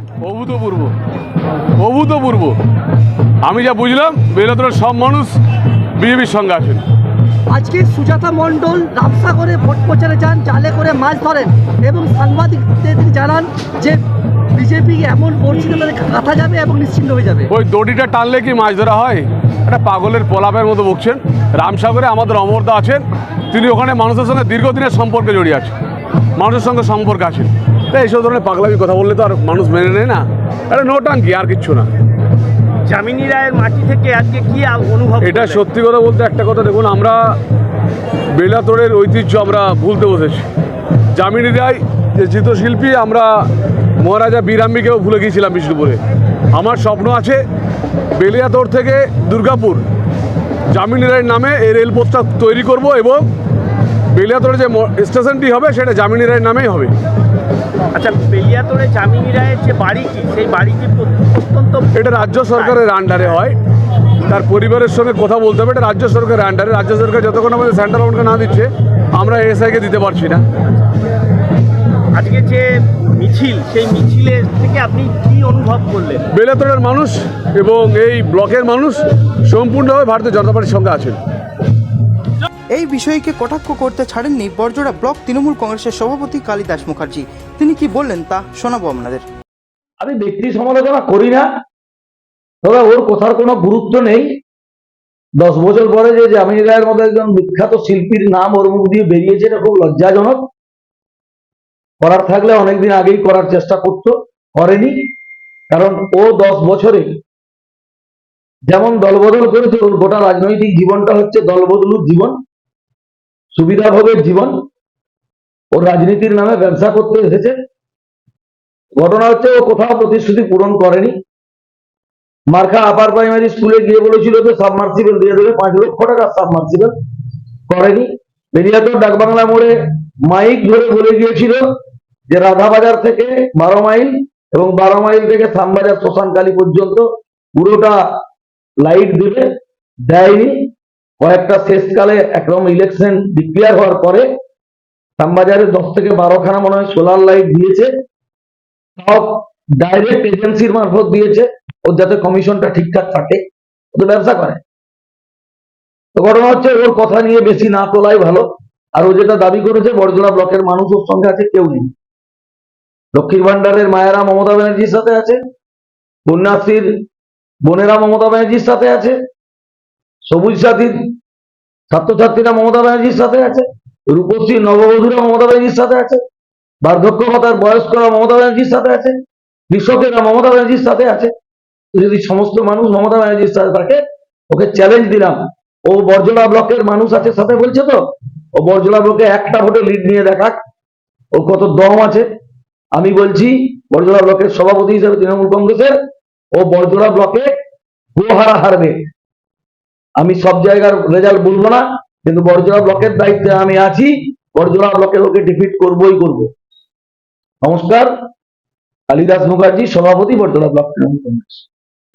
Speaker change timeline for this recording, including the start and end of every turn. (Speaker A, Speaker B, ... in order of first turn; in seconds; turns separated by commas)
Speaker A: 0.2-0.9, Speaker A: 1.8-2.5, Speaker A: 3.4-5.4, Speaker A: 6.0-6.8, Speaker B: 7.5-14.0, Speaker B: 14.5-17.5, Speaker A: 17.5-25.7, Speaker A: 26.4-31.9, Speaker C: 32.8-35.6, Speaker A: 35.2-37.4, Speaker A: 38.3-40.5, Speaker A: 41.1-43.5, Speaker A: 44.0-46.0, Speaker A: 46.5-47.4, Speaker A: 48.1-49.8, Speaker A: 50.7-53.3, Speaker A: 54.1-56.9, Speaker C: 57.9-62.8, Speaker A: 61.9-63.6, Speaker A: 64.2-70.4, Speaker C: 72.1-76.3, Speaker A: 76.3-81.2, Speaker D: 82.7-89.2, Speaker E: 90.0-91.5, Speaker E: 92.6-94.3, Speaker E: 95.4-100.5, Speaker E: 102.0-105.0, Speaker E: 105.7-107.1, Speaker E: 108.7-112.4, Speaker E: 113.5-114.5, Speaker E: 115.7-117.5, Speaker E: 119.0-121.1, Speaker E: 122.5-126.9, Speaker E: 127.7-131.6, Speaker E: 132.3-138.2, Speaker E: 138.8-139.5, Speaker E: 140.1-144.2, Speaker E: 145.2-147.9, Speaker E: 149.0-153.4, Speaker E: 153.9-154.6, Speaker E: 156.1-161.9, Speaker E: 163.1-165.4, Speaker E: 166.2-166.9, Speaker E: 167.6-169.2, Speaker E: 170.2-171.1, Speaker E: 171.9-176.2, Speaker E: 176.8-179.2, Speaker E: 179.7-181.3, Speaker E: 181.9-188.0, Speaker E: 188.5-190.6, Speaker E: 191.3-192.2, Speaker E: 192.9-195.9, Speaker E: 196.5-197.5, Speaker E: 198.1-199.0, Speaker E: 200.2-206.5, Speaker E: 207.6-208.1, Speaker E: 209.1-211.7